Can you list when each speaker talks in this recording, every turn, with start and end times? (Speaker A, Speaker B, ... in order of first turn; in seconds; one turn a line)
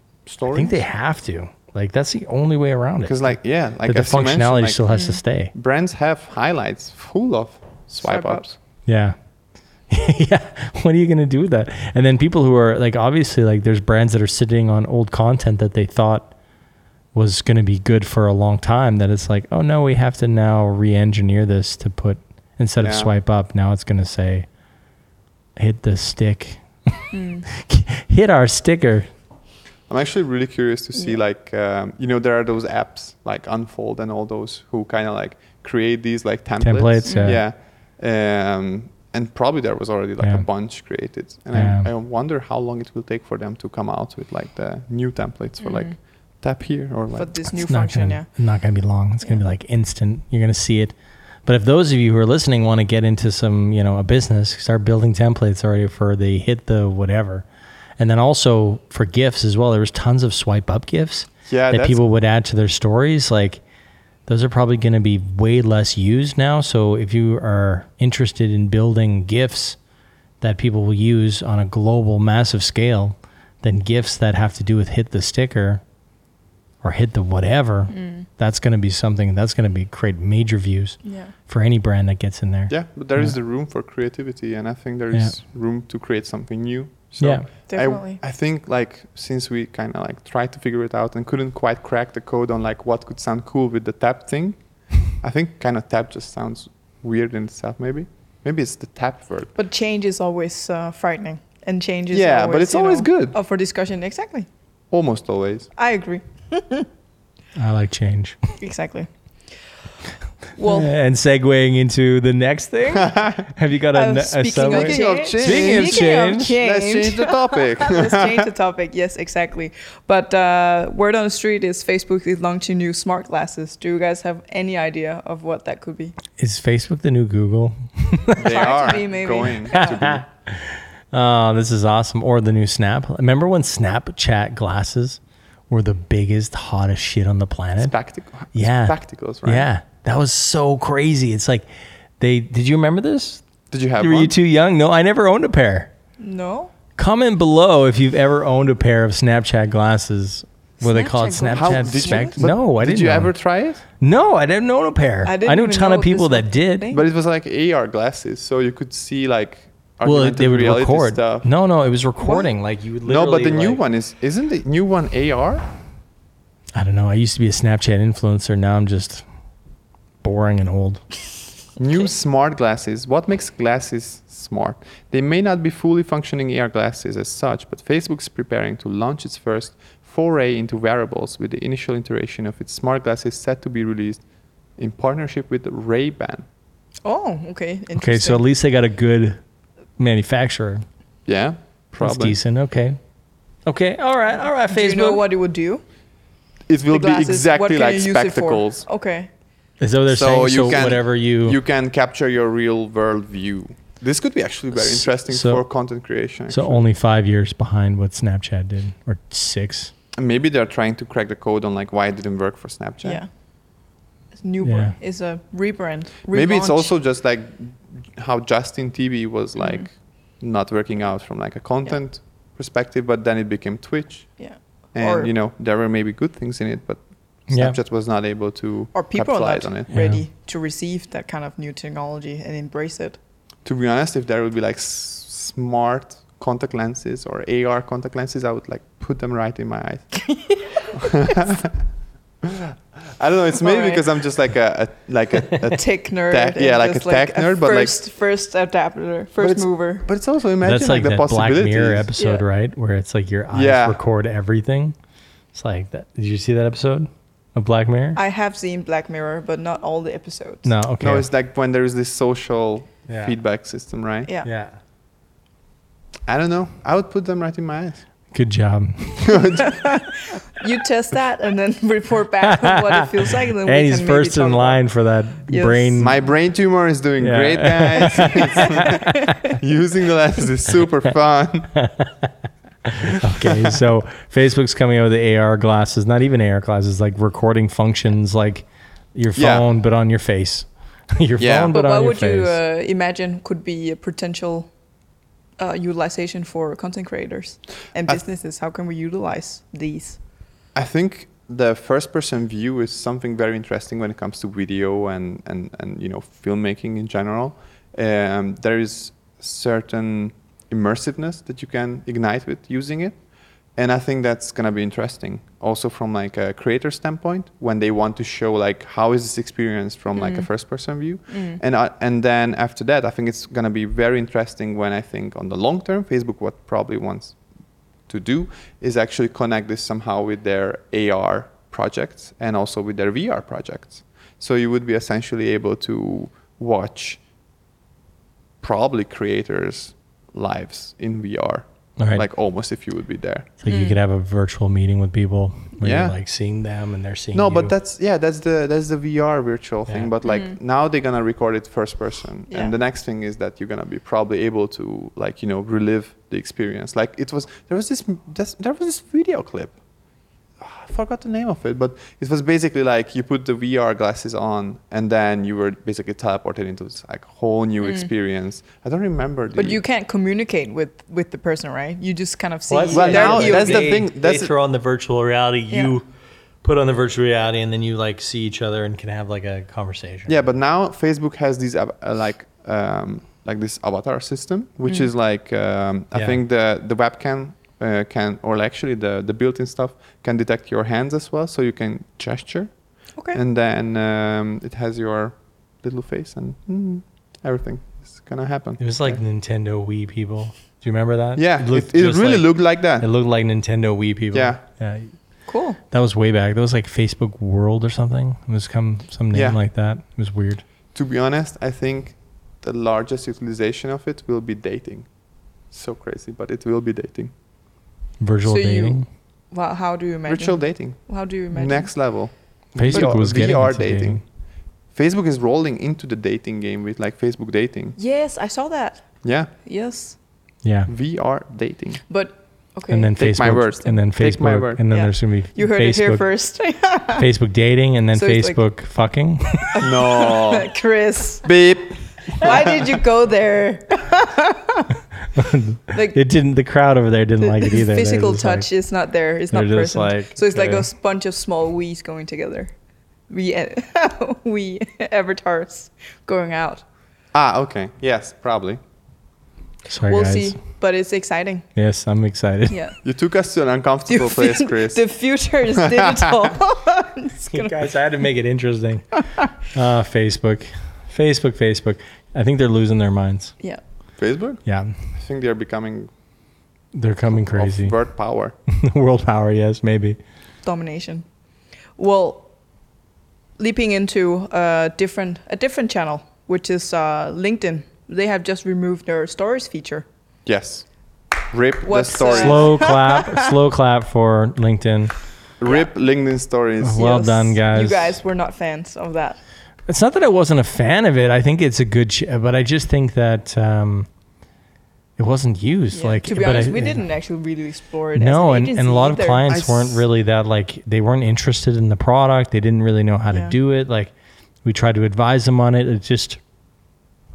Speaker A: 0.2-0.8
Speaker B: 0.5-5.5
Speaker A: 3.0-4.8
Speaker C: 4.9-5.2
Speaker A: 5.5-8.5
Speaker C: 8.0-8.5
Speaker B: 8.8-9.2
Speaker B: 9.9-16.3
Speaker B: 17.1-24.5
Speaker A: 22.8-23.1
Speaker B: 25.6-29.1
Speaker C: 27.1-27.4
Speaker A: 29.9-47.3
Speaker B: 36.6-37.4
Speaker C: 37.0-37.4
Speaker B: 40.2-40.5
Speaker B: 41.5-41.9
Speaker C: 45.6-45.9
Speaker C: 47.1-48.3
Speaker B: 47.6-50.9
Speaker B: 51.5-57.4
Speaker B: 58.0-63.6
Speaker A: 61.5-62.0
Speaker B: 64.2-69.8
Speaker B: 70.4-75.8
Speaker B: 76.8-83.3
Speaker C: 77.9-78.3
Speaker C: 81.0-81.3
Speaker A: 82.7-99.5
Speaker C: 87.7-88.2
Speaker C: 99.5-104.5
Speaker A: 102.1-103.4
Speaker A: 104.9-105.7
Speaker C: 105.8-106.9
Speaker B: 107.5-108.4
Speaker C: 108.6-109.1
Speaker C: 110.6-110.9
Speaker B: 110.6-116.6
Speaker A: 112.9-113.4
Speaker C: 113.9-126.2
Speaker A: 114.7-118.5
Speaker B: 126.4-128.5
Speaker C: 128.3-130.0
Speaker A: 128.4-130.3
Speaker B: 129.7-137.9
Speaker A: 137.8-139.7
Speaker B: 138.5-141.7
Speaker B: 142.2-143.4
Speaker A: 143.7-144.3
Speaker B: 144.0-145.9
Speaker C: 146.2-146.7
Speaker B: 146.9-153.3
Speaker C: 150.8-152.3
Speaker A: 151.5-153.8
Speaker B: 154.0-156.9
Speaker C: 155.2-157.0
Speaker A: 156.9-161.5
Speaker B: 160.0-163.8
Speaker C: 162.2-162.5
Speaker A: 163.0-165.7
Speaker B: 166.7-169.2
Speaker B: 170.2-171.0
Speaker A: 171.8-184.2
Speaker A: 184.8-186.4
Speaker C: 187.0-188.4
Speaker B: 187.9-189.4
Speaker B: 190.0-190.8
Speaker A: 191.2-192.4
Speaker B: 192.0-193.0
Speaker B: 193.7-195.2
Speaker C: 194.7-195.8
Speaker A: 196.7-198.8
Speaker C: 196.9-199.3
Speaker B: 199.8-201.6
Speaker A: 200.1-206.8
Speaker B: 204.8-205.6
Speaker B: 206.5-209.9
Speaker A: 210.2-213.2
Speaker C: 213.0-213.3
Speaker C: 214.4-216.9
Speaker B: 214.6-214.9
Speaker A: 216.3-224.4
Speaker C: 219.6-219.8
Speaker C: 224.4-225.3
Speaker A: 224.9-230.0
Speaker B: 227.5-227.8
Speaker C: 228.9-233.2
Speaker B: 229.9-230.2
Speaker A: 233.6-240.2
Speaker C: 240.2-241.3
Speaker A: 240.9-241.7
Speaker A: 242.4-248.0
Speaker C: 243.6-244.1
Speaker C: 245.7-250.1
Speaker A: 249.4-252.1
Speaker B: 250.6-254.9
Speaker C: 252.2-252.4
Speaker A: 253.5-254.0
Speaker B: 255.5-258.2
Speaker C: 258.1-260.7
Speaker B: 260.6-261.3
Speaker A: 261.0-264.3
Speaker B: 263.1-263.4
Speaker B: 264.4-264.8
Speaker A: 266.3-268.0
Speaker B: 268.3-269.4
Speaker A: 269.2-269.8
Speaker C: 269.6-274.9
Speaker B: 272.5-276.2
Speaker C: 275.5-276.2
Speaker A: 276.0-281.7
Speaker B: 277.2-279.2
Speaker C: 278.1-279.3
Speaker B: 281.8-282.3
Speaker B: 282.9-292.6
Speaker A: 283.4-283.8
Speaker A: 289.3-289.6
Speaker A: 291.4-291.7
Speaker C: 291.7-294.7
Speaker C: 295.6-300.2
Speaker A: 300.7-313.2
Speaker A: 313.8-327.4
Speaker C: 320.1-320.5
Speaker C: 321.3-321.6
Speaker A: 328.1-337.2
Speaker A: 338.6-343.5
Speaker B: 342.0-342.2
Speaker B: 343.6-347.7
Speaker C: 343.7-344.0
Speaker A: 345.8-346.2
Speaker A: 347.3-359.8
Speaker C: 350.2-350.5
Speaker A: 360.6-369.8
Speaker C: 367.8-368.1
Speaker C: 369.5-374.0
Speaker B: 372.7-376.1
Speaker A: 372.9-374.5
Speaker B: 376.6-380.4
Speaker A: 380.3-399.2
Speaker B: 386.1-386.4
Speaker B: 398.8-405.1
Speaker A: 401.4-403.1
Speaker A: 404.3-404.6
Speaker C: 405.5-405.8
Speaker B: 405.9-410.6
Speaker A: 409.3-409.6
Speaker A: 410.9-415.1
Speaker A: 415.7-417.3
Speaker B: 418.2-419.0
Speaker C: 418.4-419.0
Speaker C: 419.5-422.0
Speaker A: 420.3-424.2
Speaker B: 422.7-424.2
Speaker C: 422.9-423.2
Speaker A: 424.9-428.0
Speaker C: 428.0-430.1
Speaker A: 429.2-429.5
Speaker B: 430.6-430.9
Speaker A: 430.9-432.0
Speaker C: 432.1-433.2
Speaker B: 432.9-436.2
Speaker A: 433.2-434.8
Speaker C: 434.9-437.2
Speaker B: 437.1-439.7
Speaker C: 438.1-438.7
Speaker C: 439.6-441.5
Speaker A: 439.8-440.7
Speaker A: 441.4-443.0
Speaker C: 442.4-444.9
Speaker B: 445.4-448.7
Speaker C: 445.9-446.2
Speaker C: 447.4-452.7
Speaker B: 449.5-450.9
Speaker C: 453.3-456.8
Speaker A: 457.3-458.8
Speaker B: 459.9-460.6
Speaker C: 460.1-461.7
Speaker B: 461.8-462.8
Speaker C: 462.7-463.0
Speaker A: 463.0-465.0
Speaker C: 464.1-467.9
Speaker A: 465.8-466.5
Speaker B: 467.5-473.5
Speaker A: 474.2-476.1
Speaker B: 474.6-474.9
Speaker B: 476.9-477.9
Speaker A: 477.3-478.5
Speaker B: 478.7-480.2
Speaker C: 480.6-481.2
Speaker C: 482.0-482.5
Speaker C: 483.6-490.1
Speaker A: 490.4-490.9
Speaker A: 491.5-492.7
Speaker C: 491.8-493.3
Speaker B: 492.3-495.1
Speaker A: 495.6-497.0
Speaker B: 496.8-498.1
Speaker C: 496.9-499.4
Speaker B: 499.9-504.1
Speaker B: 505.2-507.0
Speaker C: 505.9-509.4
Speaker B: 508.1-514.1
Speaker A: 509.5-510.0
Speaker B: 514.6-516.4